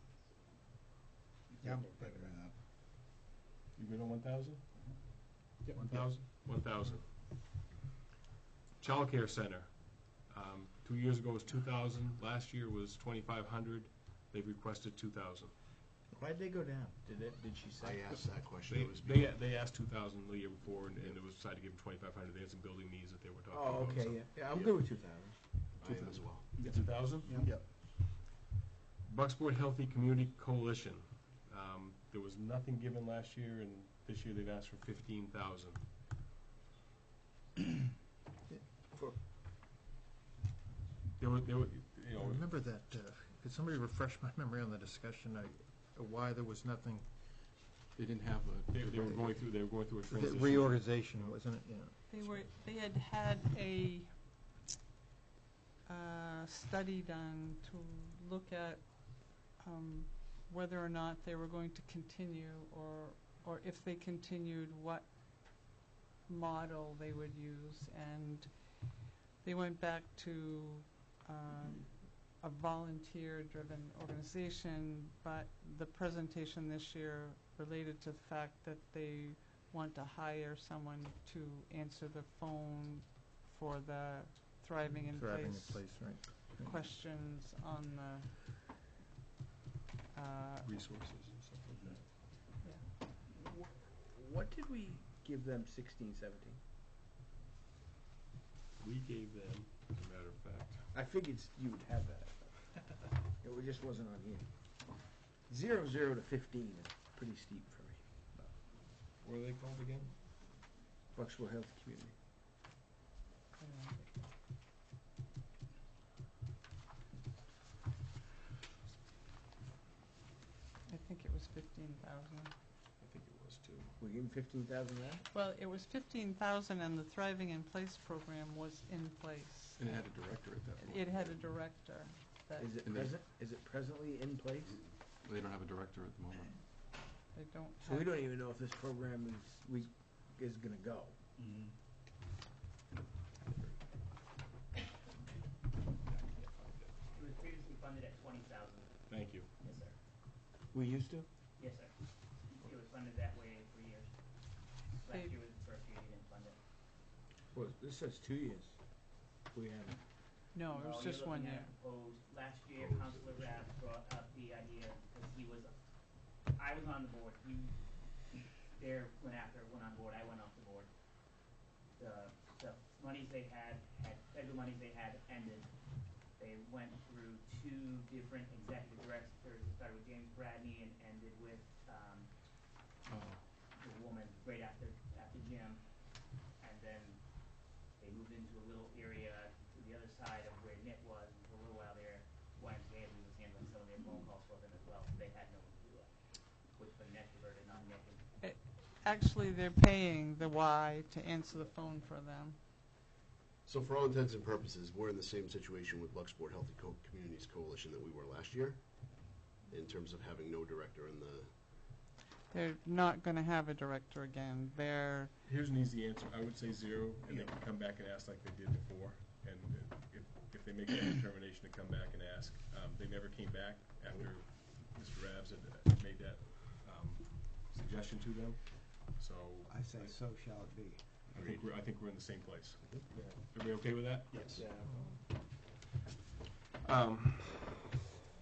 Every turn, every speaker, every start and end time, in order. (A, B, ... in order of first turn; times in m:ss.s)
0:01.5-0:02.3 A
0:01.6-0:02.6 B
0:03.8-0:04.6 C
0:05.7-0:07.1 C
0:08.8-0:15.5 C
0:16.1-0:18.0 A
0:17.8-0:19.4 D
0:18.1-0:18.4 E
0:18.5-0:24.3 C
0:23.5-0:26.0 A
0:24.5-0:24.8 D
0:25.8-0:26.6 D
0:26.6-0:27.3 C
0:26.6-0:27.1 A
0:27.2-0:27.6 B
0:29.0-0:35.8 C
0:38.9-0:39.2 A
0:41.2-0:42.5 C
0:42.1-0:47.1 F
0:47.9-0:50.0 E
0:48.7-0:51.4 C
0:50.0-0:52.4 F
0:52.1-0:54.2 G
0:55.8-1:28.3 G
1:25.0-1:26.8 F
1:30.1-1:30.7 G
1:30.6-1:32.1 C
1:33.3-1:36.6 A
1:38.8-1:40.8 C
1:40.9-1:48.0 A
1:49.0-1:50.1 C
1:51.1-1:52.1 A
1:53.6-1:54.2 G
2:00.9-2:02.5 G
2:03.0-2:03.9 C
2:04.0-2:05.2 A
2:05.3-2:09.8 G
2:09.8-2:11.5 E
2:10.8-2:12.7 G
2:12.6-2:14.8 A
2:12.8-2:13.2 E
2:15.2-2:16.6 E
2:17.3-2:18.2 G
2:17.8-2:21.2 A
2:21.5-2:21.7 E
2:23.5-2:23.8 E
2:26.2-2:26.7 E
2:27.1-2:28.9 H
2:29.1-2:29.5 C
2:29.6-2:30.0 H
2:30.7-2:31.3 A
2:31.6-2:31.9 H
2:32.5-2:34.1 H
2:35.0-2:36.6 H
2:35.0-2:35.3 G
2:37.5-2:40.0 A
2:40.5-2:41.7 G
2:40.7-2:45.7 H
2:42.7-2:43.7 D
2:46.6-2:47.7 H
2:48.7-2:50.9 H
2:52.0-2:55.7 H
2:56.4-3:02.3 H
3:03.1-3:03.4 E
3:03.8-3:05.8 H
3:06.6-3:07.2 H
3:08.0-3:16.1 H
3:16.8-3:18.2 H
3:18.4-3:22.6 G
3:23.6-3:31.5 D
3:32.5-3:35.3 G
3:35.4-3:50.2 C
3:49.6-3:51.5 B
3:51.1-3:54.6 C
3:54.3-3:54.7 D
3:54.5-3:54.9 A
3:54.8-3:55.2 F
3:56.8-3:57.8 C